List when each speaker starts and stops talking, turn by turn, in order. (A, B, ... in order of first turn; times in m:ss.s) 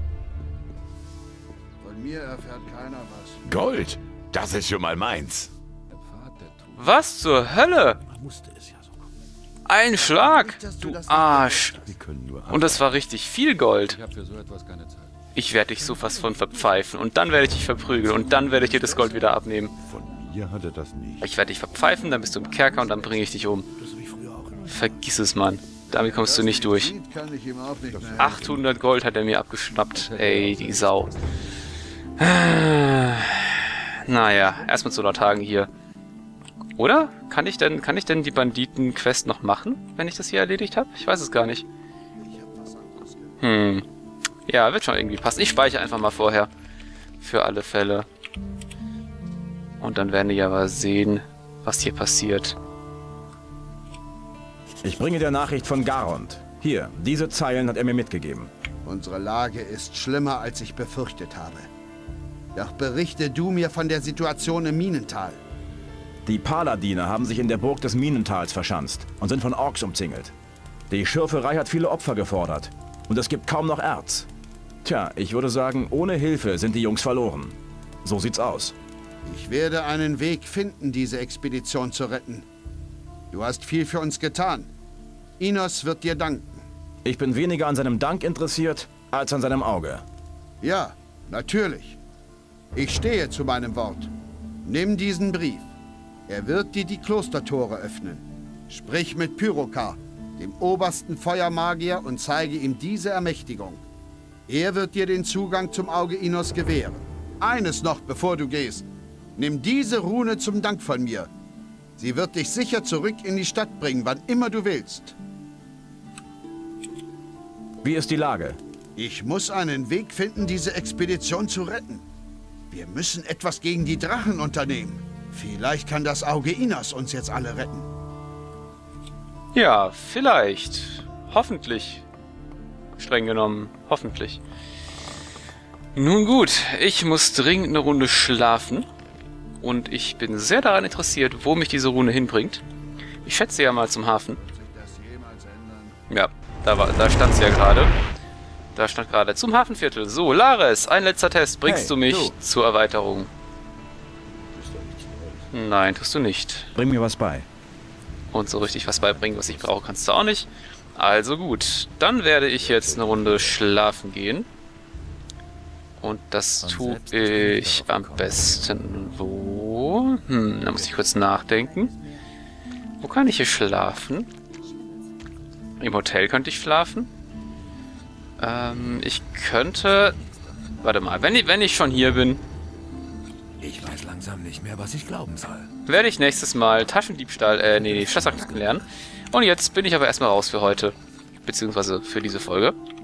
0:01.8-0:03.4 A
0:03.4-0:05.5 B
0:06.0-0:06.8 C
0:06.8-0:08.0 D
0:08.0-0:08.9 C
0:09.6-0:11.8 D
0:10.3-0:11.9 A
0:10.9-0:12.9 B
0:12.5-0:14.0 D
0:13.9-0:15.1 C
0:15.3-0:19.7 D
0:18.4-0:21.3 B
0:21.2-0:23.7 D
0:22.4-0:23.2 B
0:23.8-0:24.3 B
0:24.1-0:24.6 C
0:24.6-0:26.9 D
0:25.9-0:26.2 B
0:26.2-0:28.2 A
0:27.8-0:28.7 B
0:28.2-0:31.1 D
0:29.9-0:31.1 C
0:32.2-0:35.7 D
0:36.8-0:41.6 D
0:43.4-0:43.8 D
0:44.5-0:46.5 D
0:47.2-0:48.1 D
0:49.8-0:52.6 D
0:54.8-0:58.5 E
0:58.8-1:01.7 A
1:02.5-1:05.4 A
1:06.2-1:10.3 E
1:10.9-1:14.3 E
1:14.8-1:18.7 E
1:19.2-1:22.4 A
1:23.3-1:24.7 A
1:25.4-1:26.6 A
1:27.0-1:30.0 E
1:30.6-1:32.0 A
1:32.7-1:34.1 A
1:34.6-1:35.7 A
1:36.3-1:43.8 A
1:44.5-1:51.3 A
1:52.0-1:55.1 A
1:57.8-1:58.6 E
1:59.0-2:02.0 A
2:02.7-2:07.9 A
2:09.5-2:12.0 D
2:13.0-2:14.4 D
2:15.9-2:18.9 D
2:19.6-2:22.6 D
2:23.2-2:24.4 D
2:24.4-2:26.0 A
2:26.1-2:27.9 D
2:28.7-2:33.3 D
2:31.6-2:32.3 E
2:34.5-2:35.4 B
2:35.5-2:36.7 D
2:36.7-2:37.5 E
2:38.3-2:44.5 D
2:38.6-2:39.8 C
2:42.6-2:43.6 B
2:46.0-2:51.9 D
2:46.6-2:48.8 C
2:51.0-2:52.1 C
2:53.0-2:54.3 D
2:55.8-2:57.1 D
2:58.4-3:00.2 D
2:59.9-3:00.7 C
3:00.8-3:02.4 D
3:03.6-3:05.7 C
3:05.8-3:12.8 D
3:08.2-3:08.5 C